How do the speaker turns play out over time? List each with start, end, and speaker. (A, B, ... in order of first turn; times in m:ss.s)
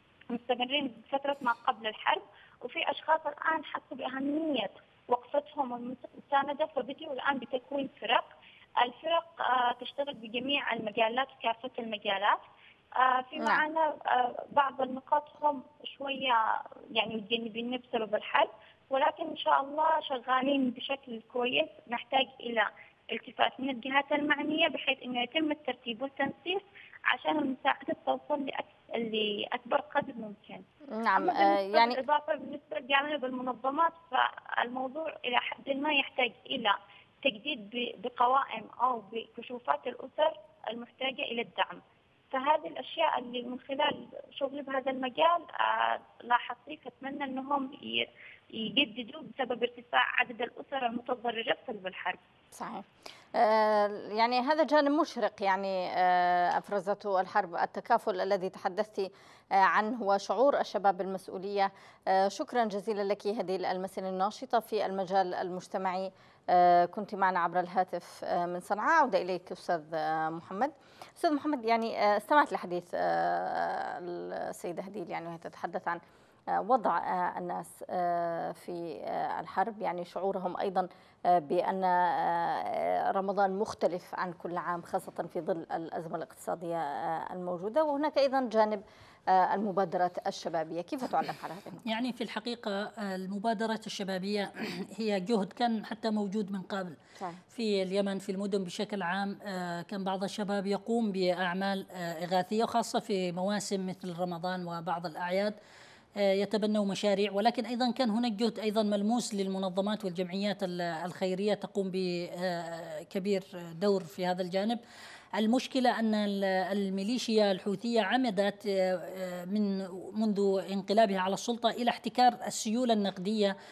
0:00.3-0:08.3 A
0:08.8-0:12.4 A
0:13.0-0:16.4 A
0:13.4-0:13.6 B
0:17.0-0:30.6 A
0:30.9-0:32.0 B
0:31.2-0:41.8 A
0:42.3-0:52.2 A
0:52.5-1:16.0 B
1:16.6-1:31.8 B
1:31.9-1:37.0 C
1:37.5-1:45.6 C
1:46.2-1:54.8 C
1:55.4-2:03.5 C